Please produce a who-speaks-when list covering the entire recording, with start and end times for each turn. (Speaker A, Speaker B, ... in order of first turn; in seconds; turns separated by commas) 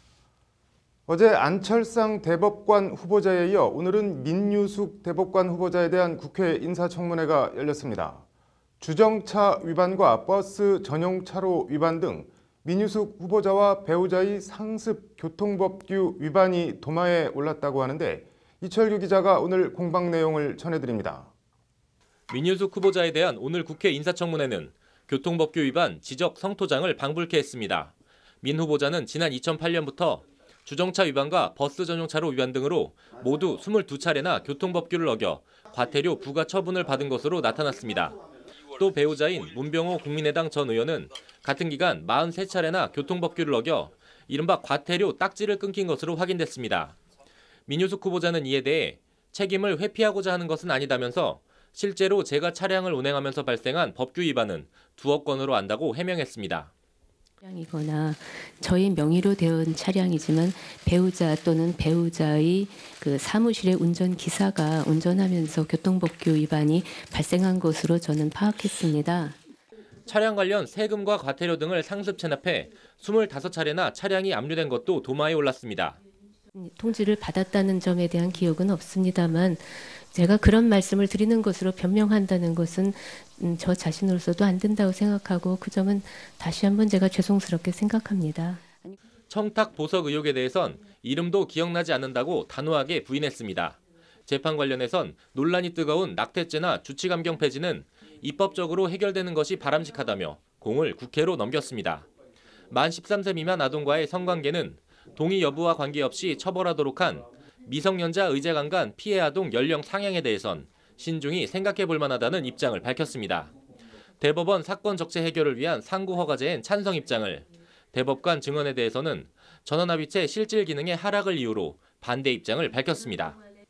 Speaker A: 1.1-8.2, Speaker A: 8.8-21.3, Speaker B: 22.3-47.0, Speaker B: 47.7-56.7, Speaker C: 57.4-69.4, Speaker B: 70.1-76.0, Speaker C: 76.5-88.6, Speaker B: 89.3-102.1, Speaker B: 102.7-113.5, Speaker B: 114.2-123.4